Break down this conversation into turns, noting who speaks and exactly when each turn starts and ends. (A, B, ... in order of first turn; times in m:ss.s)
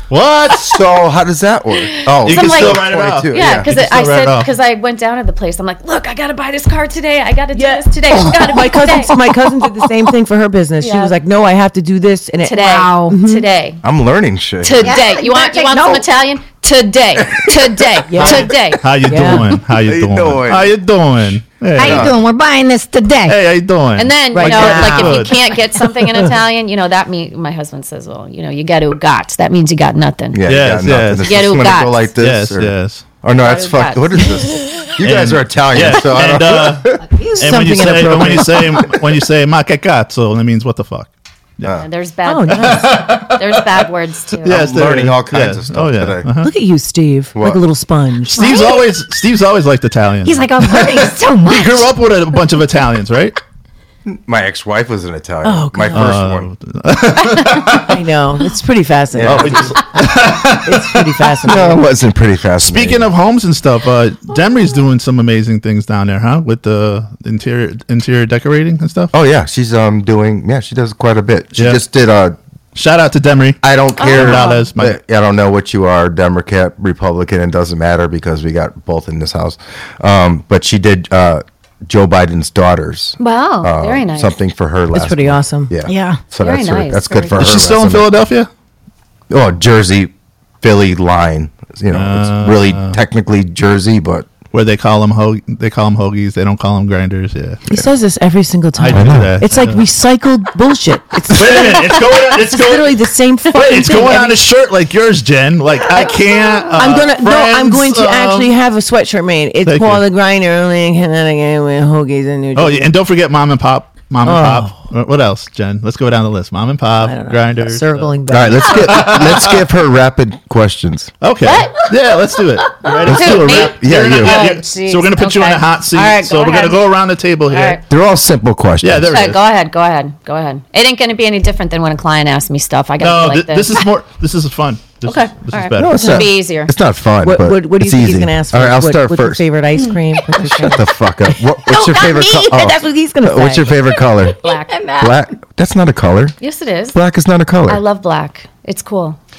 0:00.1-0:00.8 A
0:00.6-0:03.7 B
0:01.9-0:09.2 C
0:02.2-0:04.5 A
0:07.6-0:13.5 D
0:10.8-0:11.1 C
0:12.4-0:13.8 C
0:12.6-0:13.2 E
0:13.8-0:15.0 B
0:14.6-0:18.9 C
0:14.8-0:16.1 E
0:18.1-0:18.5 D
0:18.2-0:22.1 A
0:19.0-0:19.5 D
0:19.8-0:20.8 B
0:21.8-0:23.4 E
0:21.8-0:22.2 B
0:23.3-0:25.3 A
0:24.0-0:30.4 C
0:24.3-0:25.3 D
0:30.3-0:37.1 B
0:30.5-0:31.4 A
0:31.2-0:32.1 C
0:32.2-0:33.0 A
0:33.4-0:34.3 C
0:35.0-0:41.8 A
0:37.1-0:39.0 D
0:41.8-0:44.7 C
0:42.3-0:43.1 D
0:42.5-0:43.8 A
0:44.4-0:46.5 A
0:44.4-0:46.3 B
0:46.4-0:48.6 D
0:47.4-0:47.6 B
0:48.3-0:53.4 A
0:48.4-0:48.8 E
0:50.2-0:51.9 E
0:54.1-0:56.5 B
0:55.4-0:56.1 D
0:55.9-0:58.0 A
0:57.7-1:01.8 D
0:59.1-0:59.8 B
0:59.2-1:01.4 A
1:01.4-1:03.1 B
1:02.6-1:09.1 A
1:09.1-1:12.4 B
1:11.6-1:11.8 A
1:12.8-1:15.0 A
1:13.6-1:28.1 B
1:14.0-1:14.7 C
1:23.2-1:24.4 C
1:24.9-1:25.7 D
1:25.8-1:26.2 E
1:26.4-1:27.6 C
1:27.4-1:28.5 A
1:29.3-1:34.3 B
1:31.9-1:33.0 A
1:34.5-1:37.6 A
1:37.7-1:44.4 D
1:38.8-1:39.8 A
1:38.9-1:39.4 B
1:41.3-1:48.5 A
1:46.7-1:52.9 D
1:49.6-1:50.0 A
1:52.5-1:58.1 A
1:54.2-1:54.7 D
1:57.0-1:59.2 D
1:58.3-2:01.1 B
1:58.7-1:59.6 A
2:01.2-2:07.8 A
2:01.4-2:01.9 C
2:02.9-2:06.8 C
2:03.0-2:04.4 B
2:07.5-2:07.8 C
2:07.9-2:09.2 B
2:08.8-2:09.4 A
2:09.1-2:13.8 C
2:13.0-2:16.1 A
2:15.0-2:16.7 C
2:15.8-2:19.4 B
2:16.0-2:16.3 D
2:17.2-2:20.9 D
2:20.4-2:24.4 B
2:21.6-2:23.8 D
2:24.4-2:24.8 C
2:24.5-2:25.2 E
2:25.0-2:26.4 B
2:26.4-2:27.0 C
2:26.9-2:27.8 B
2:27.7-2:29.2 C